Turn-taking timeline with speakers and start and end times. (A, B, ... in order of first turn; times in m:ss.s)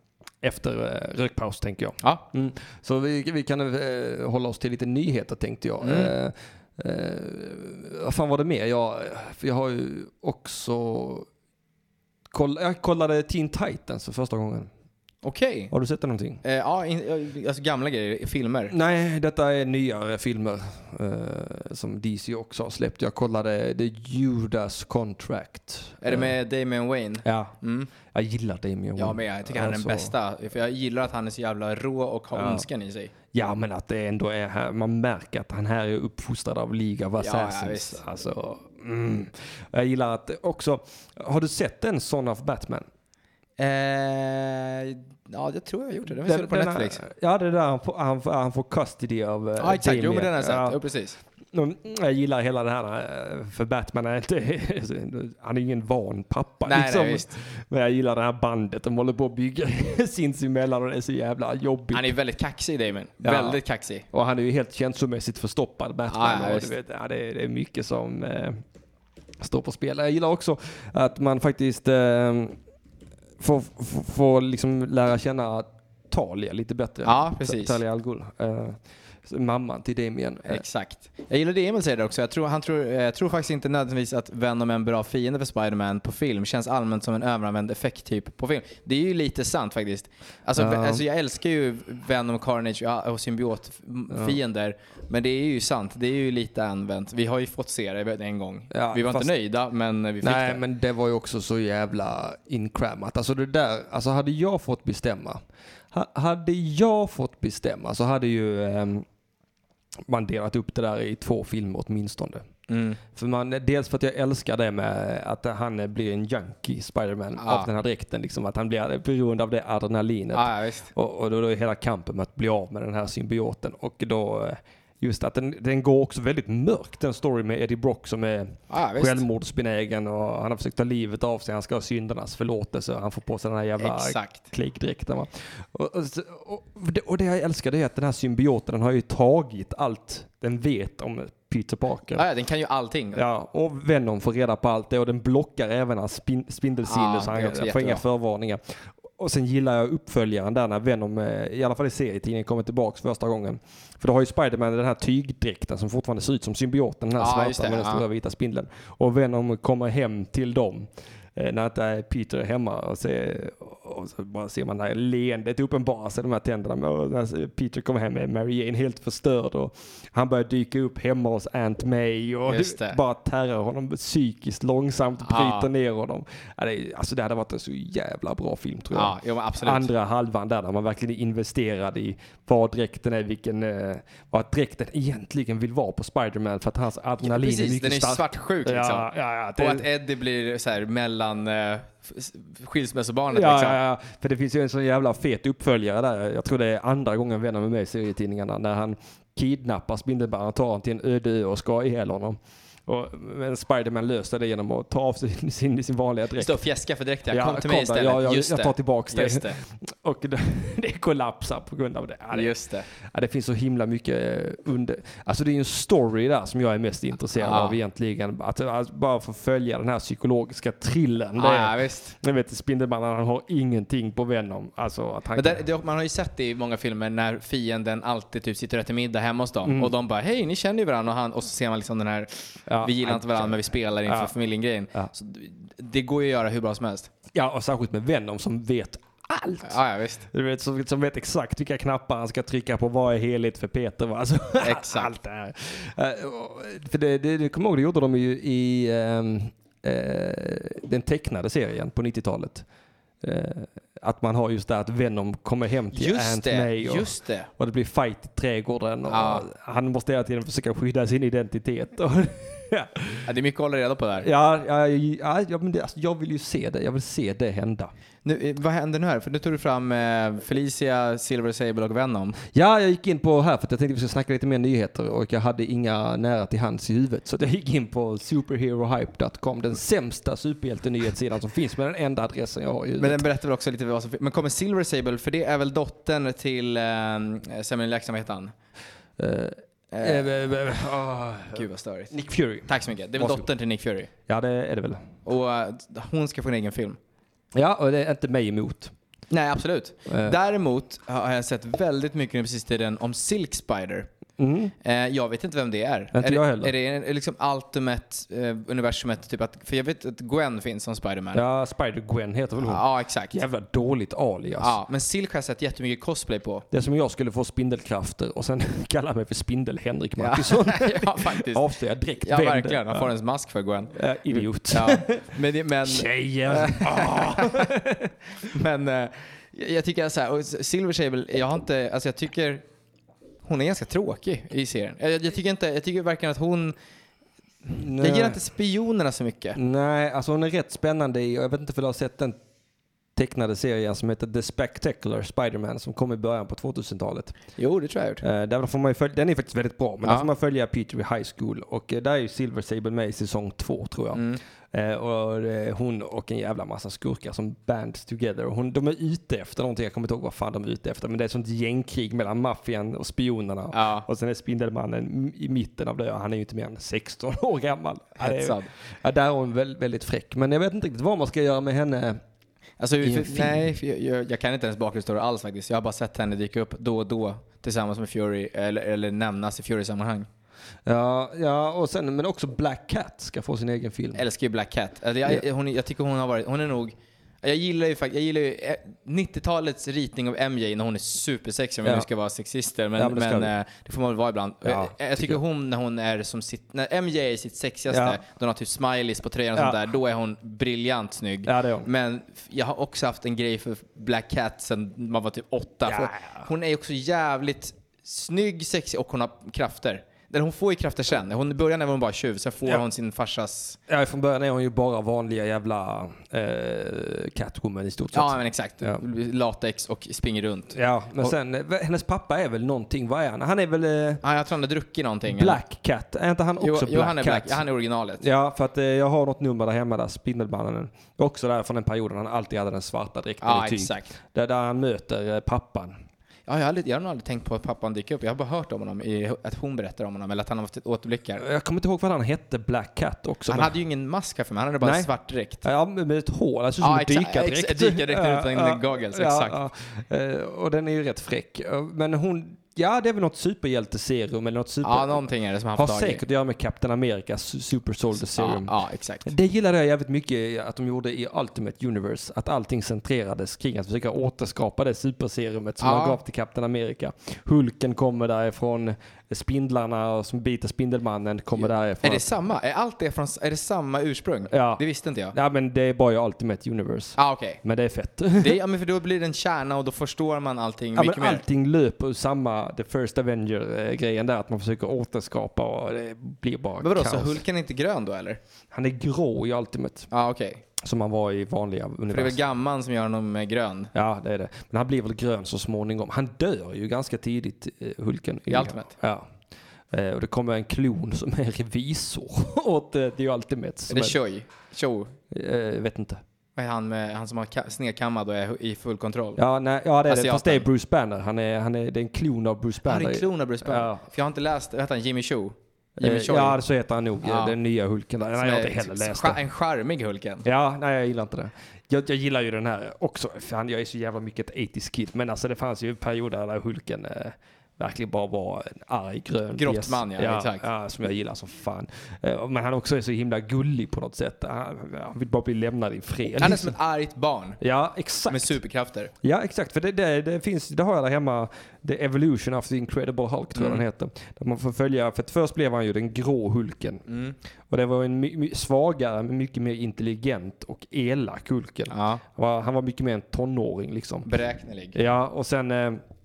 0:00.4-0:11.3 A
0:05.8-0:06.1 B
0:12.3-0:14.7 A
0:15.2-0:15.7 B
0:15.7-0:16.4 A
0:16.4-0:18.7 B
0:18.7-0:26.3 A
0:26.0-0:27.9 B
0:27.2-0:30.1 A
0:29.0-0:33.1 B
0:32.3-0:32.7 A
0:33.3-0:42.8 A
0:37.2-0:38.0 B
0:43.6-0:47.0 B
0:46.2-0:50.8 A
0:49.6-0:51.2 B
0:51.5-1:02.1 A
0:56.6-0:57.4 B
1:01.9-1:04.0 B
1:03.2-1:08.6 A
1:06.1-1:06.7 B
1:09.4-1:12.6 A
1:13.4-1:20.6 A
1:17.0-1:17.8 B
1:20.4-1:40.6 B
1:30.6-1:31.0 A
1:34.1-1:34.4 A
1:38.7-1:39.3 A
1:40.2-1:45.4 A
1:45.9-1:49.0 A
1:50.1-1:52.4 A
1:52.7-1:53.0 B
1:53.1-2:22.2 A
1:57.4-1:57.7 B
2:00.3-2:00.9 B
2:08.7-2:09.2 B
2:13.8-2:14.4 B
2:22.1-2:23.2 B
2:23.2-3:09.8 A
2:26.8-2:28.0 B
2:37.2-2:38.0 B
2:52.5-2:53.0 B
2:55.2-2:55.7 B
2:58.9-2:59.9 B
3:07.2-3:13.8 B
3:13.3-3:26.5 A
3:26.4-3:29.6 B
3:27.3-3:45.6 A
3:32.3-3:32.8 B
3:37.4-3:37.8 B
3:41.4-3:42.2 B
3:45.3-3:57.1 B
3:49.6-3:49.9 A
3:52.7-3:54.3 A
3:57.3-3:59.8 A
3:59.6-4:00.3 B
4:00.3-4:12.6 A
4:04.6-4:05.1 B
4:13.2-4:23.3 A
4:15.9-4:17.5 B
4:19.1-4:19.5 B
4:23.2-4:24.3 B
4:24.2-4:27.9 A
4:28.2-4:32.4 B
4:32.5-4:43.2 A
4:43.0-4:48.5 B
4:49.2-4:53.5 A
4:49.9-4:50.5 B
4:51.5-4:52.1 B
4:52.7-4:54.1 B
4:54.3-4:55.0 A
4:55.2-4:57.0 B
4:57.5-4:58.9 A
4:59.3-5:04.1 B
5:00.1-5:00.4 A
5:04.4-5:04.7 A
5:04.8-5:11.4 B
5:06.1-5:06.7 A
5:11.3-5:14.8 A
5:12.6-5:13.4 B
5:14.6-5:16.6 B
5:16.7-5:23.1 A
5:20.2-5:21.6 B
5:22.2-5:27.7 B
5:23.9-5:25.3 A
5:25.8-5:28.1 A
5:28.5-5:32.6 B
5:33.4-5:36.8 B
5:37.7-5:38.4 A
5:38.0-5:39.6 B
5:39.6-5:42.4 A
5:43.2-5:47.4 A
5:47.6-5:48.2 B
5:48.2-6:12.2 A
5:54.1-5:54.4 B
6:03.7-6:04.0 B
6:08.2-6:08.7 B
6:12.8-6:20.3 B
6:13.0-6:13.6 A
6:20.8-6:24.2 A
6:24.1-6:53.8 B
6:33.0-6:33.5 A
6:34.6-6:35.4 A
6:37.9-6:38.2 A
6:41.4-6:41.9 A
6:45.8-6:46.5 A
6:53.9-6:59.0 A
6:58.1-7:01.3 B
7:00.7-7:04.2 A
7:04.2-7:05.6 B
7:05.3-7:07.6 A
7:06.6-7:08.2 B
7:08.2-7:16.0 A
7:13.4-7:14.1 B
7:16.5-7:21.4 B
7:21.4-7:23.7 A
7:23.5-7:25.6 B
7:24.8-7:25.1 A
7:25.6-7:35.2 A
7:26.8-7:29.6 B
7:34.8-7:36.2 B
7:35.8-7:38.7 A
7:38.2-7:39.3 B
7:39.2-7:52.3 A
7:45.8-7:46.2 B
7:51.6-7:55.3 B
7:54.5-7:58.6 A
7:57.2-7:57.6 B
7:58.4-8:01.4 B
8:01.0-8:07.4 A
8:06.8-8:08.4 B
8:08.7-8:10.1 A
8:10.1-8:10.6 B
8:10.8-8:12.4 A
8:12.1-8:13.9 B
8:13.9-8:19.2 A
8:18.5-8:18.9 B
8:19.9-8:24.2 A
8:23.9-8:25.1 B
8:25.3-8:26.2 A
8:26.6-8:29.4 B
8:29.4-8:34.0 A
8:30.1-8:30.6 B
8:32.8-8:36.6 B
8:36.0-8:39.4 A
8:37.2-8:37.6 B
8:38.4-8:40.4 B
8:40.4-8:56.8 A
8:49.6-8:50.6 B
8:56.4-8:57.6 B
8:57.6-8:58.6 A
8:58.3-8:59.1 B
8:59.2-9:07.0 A
9:03.6-9:03.8 B
9:07.1-9:07.4 B
9:07.7-9:14.3 A
9:11.9-9:12.2 B
9:14.2-9:15.0 B
9:14.9-9:16.0 A